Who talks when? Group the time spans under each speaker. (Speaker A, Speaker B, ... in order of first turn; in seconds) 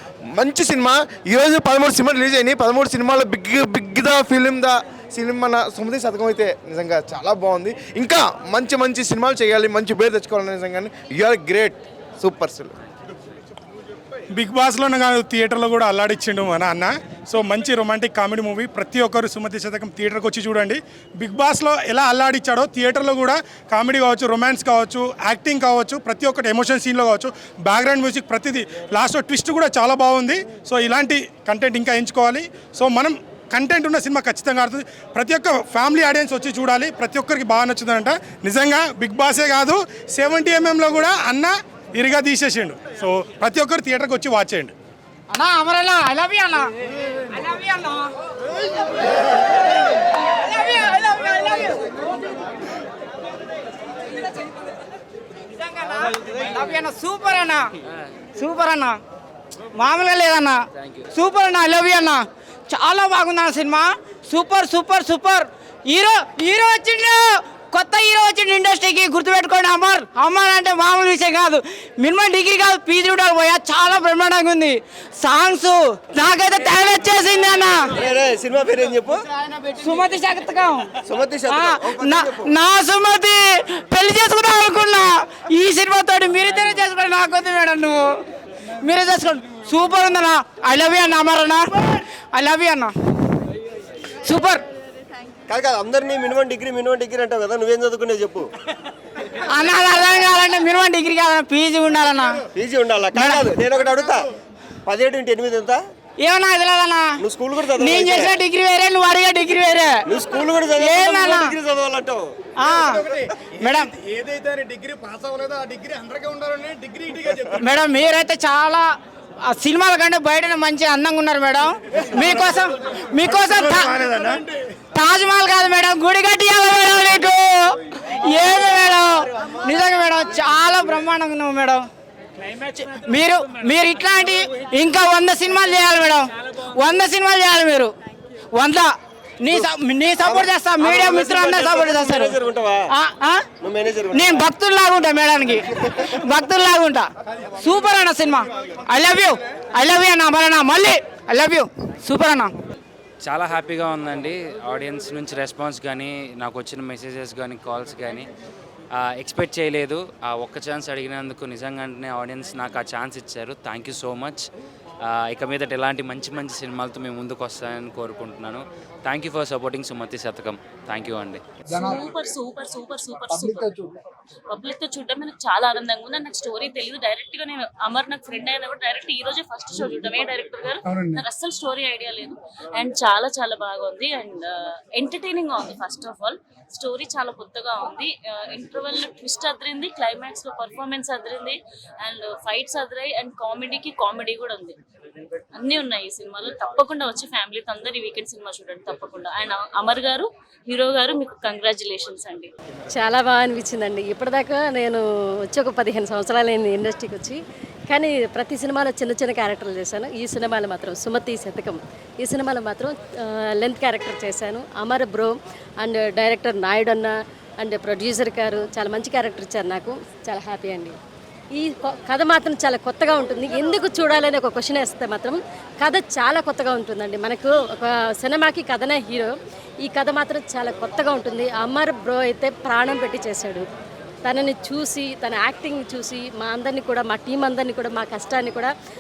Speaker A: 0.3-12.8
Speaker B: 14.3-44.7
Speaker C: 45.3-46.7, 47.3-48.1, 49.9-51.9, 55.6-57.7, 58.4-59.0, 59.8-78.0, 79.8-80.9, 81.5-88.2, 88.8-92.9, 94.2-94.6, 99.5-102.4, 103.1-103.6, 106.2-110.1, 110.7-111.6, 112.6-113.9, 117.5-118.9, 119.5-124.4, 124.9-131.8, 132.7-137.9, 138.5-142.4, 142.9-143.4, 144.1-147.1, 147.6-152.5
Speaker D: 78.0-79.2, 81.0-82.5, 95.5-98.5, 102.5-104.3, 104.9-105.8, 107.2-108.4, 110.1-112.3, 140.2-142.9, 143.6-144.5
Speaker E: 153.2-158.3, 159.0-164.4, 165.3-171.4
Speaker F: 171.7-173.9, 174.5-194.8, 195.5-202.5
Speaker G: 202.9-221.0, 221.6-229.3, 229.8-233.7, 234.2-238.7